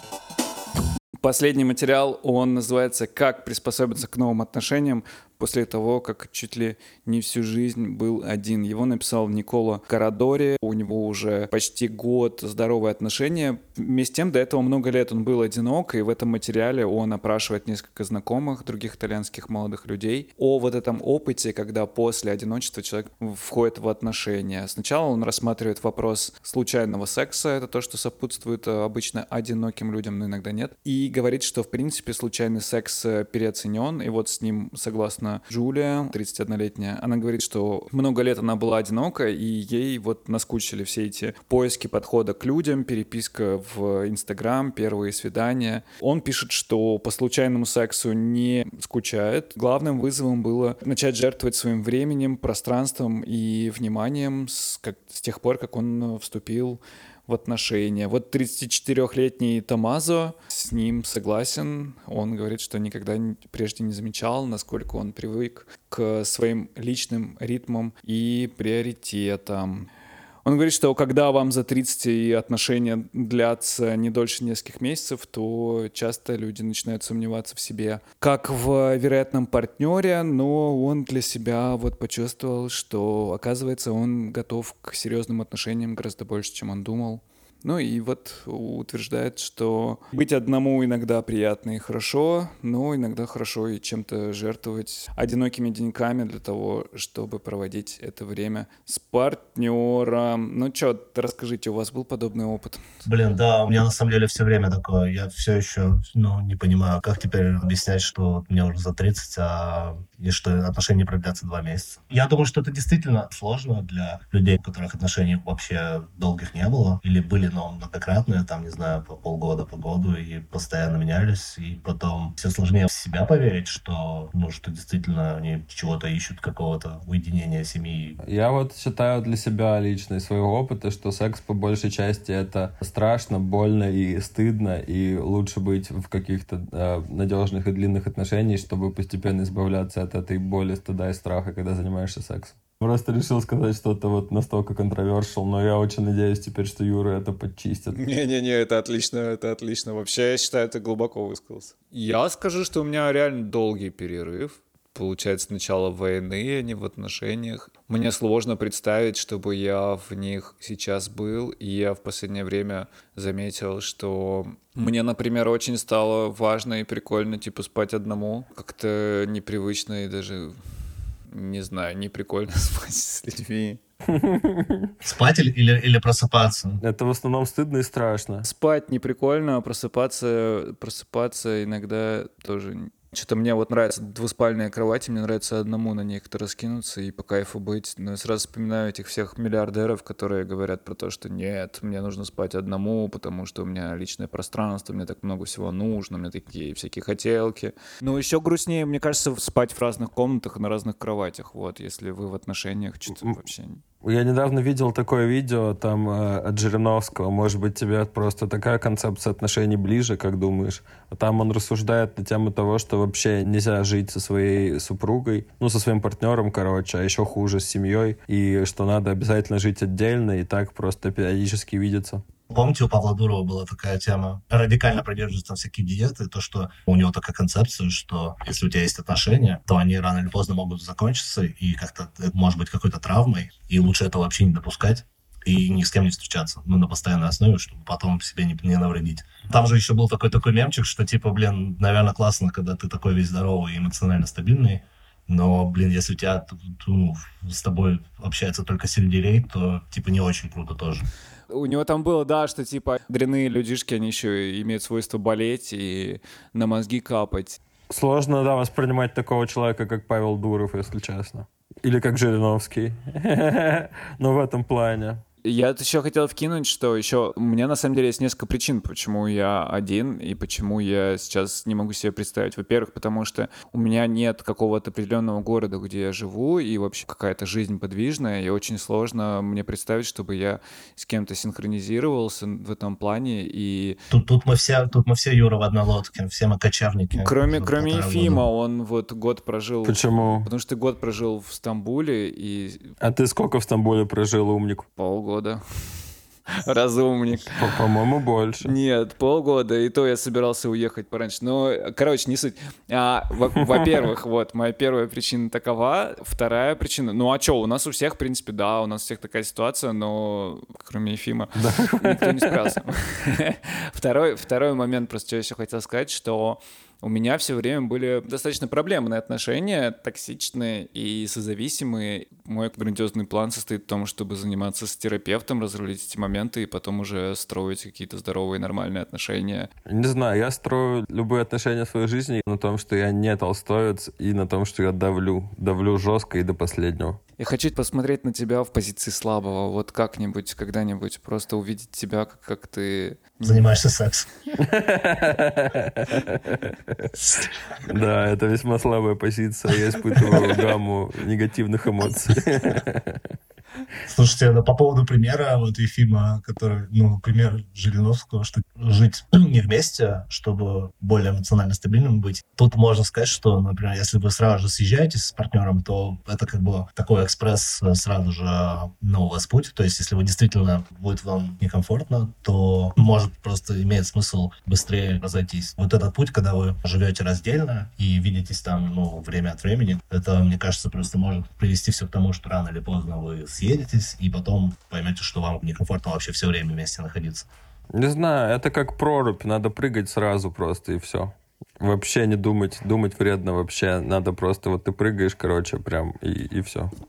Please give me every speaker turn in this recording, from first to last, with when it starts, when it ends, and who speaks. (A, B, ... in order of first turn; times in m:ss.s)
0:01.2-1:09.9 A
1:10.4-1:42.8 A
1:43.0-2:08.2 B
2:08.2-2:28.0 C
2:28.0-2:50.6 A
2:51.3-2:53.8 A
2:54.1-2:54.9 C
2:55.0-2:56.8 B
2:56.8-2:58.5 C
2:58.4-3:23.8 A
3:24.0-3:42.2 C
3:42.5-4:11.1 B
4:11.5-4:17.6 A
4:17.9-4:25.2 C
4:25.4-4:44.0 A
4:44.1-4:48.5 B
4:47.1-4:52.9 A
4:49.8-4:50.5 C
4:53.0-4:54.9 C
4:55.0-4:56.0 A
4:56.6-4:57.6 A
4:57.5-4:58.7 C
4:58.6-5:29.7 A
5:11.6-5:12.5 C
5:29.9-5:37.2 C
5:37.4-5:43.7 A
5:43.4-5:44.3 B
5:44.6-5:47.1 C
5:47.9-5:53.2 C
5:50.2-5:50.5 B
5:54.1-6:27.5 B
6:27.9-6:36.9 C